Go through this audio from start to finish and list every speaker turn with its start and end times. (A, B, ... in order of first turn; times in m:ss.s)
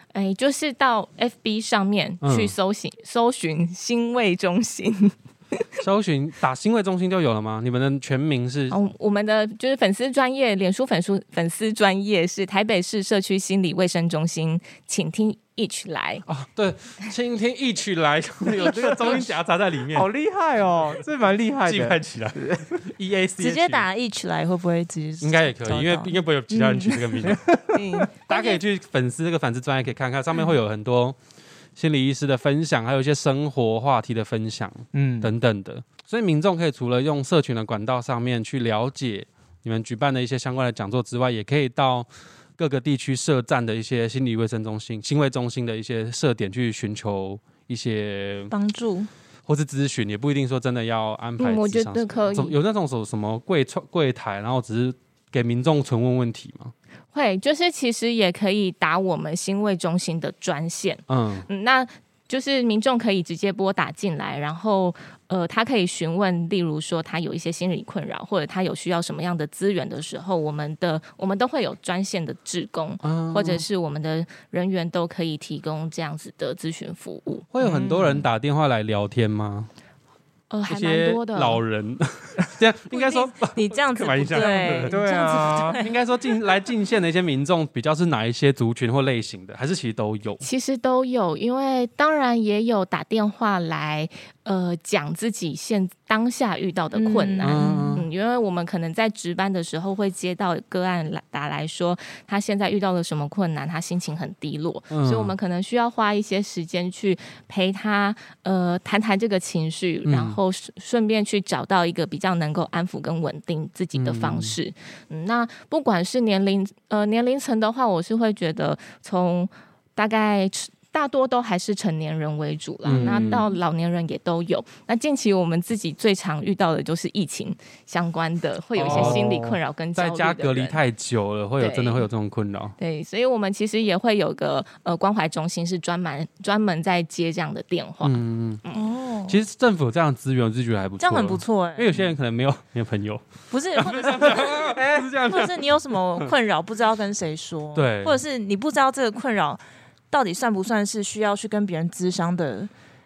0:00.1-0:05.6 A
0:02.2-0:02.5 B
0:05.8-0:08.8 B
0:08.7-0:16.2 A
0:16.3-0:20.1 B
0:18.6-0:19.2 A
0:19.9-0:22.8 C
0:21.6-0:23.9 B
0:23.4-0:27.1 D
0:25.2-0:27.4 B
0:27.2-0:28.0 C
0:27.7-0:28.6 A
0:28.3-0:31.2 B
0:31.8-0:42.1 B
0:34.9-0:35.3 C
0:42.6-0:48.5 B
0:48.5-0:49.1 D
0:49.5-0:56.7 B
0:51.4-0:52.6 A
0:57.1-1:17.5 A
1:01.1-1:01.5 B
1:13.0-1:13.6 B
1:17.5-1:19.7 B
1:17.6-1:18.3 C
1:20.5-1:21.6 A
1:20.7-1:25.0 B
1:23.0-1:26.0 D
1:23.0-1:23.3 A
1:24.4-1:25.8 C
1:25.8-1:30.4 B
1:30.4-2:10.8 A
1:36.9-1:38.0 D
1:37.4-1:38.1 B
1:44.9-1:45.3 B
1:50.0-1:50.4 B
1:54.0-1:54.6 B
2:02.9-2:03.1 C
2:02.9-2:03.5 B
2:08.8-2:09.3 B
2:08.8-2:09.6 C
2:10.0-2:12.8 B
2:11.6-2:12.1 A
2:12.8-2:18.8 A
2:18.0-2:18.6 B
2:18.7-2:19.4 D
2:19.3-2:23.2 B
2:21.0-2:22.1 D
2:23.5-2:32.7 D
2:23.7-2:26.3 B
2:27.7-2:28.2 B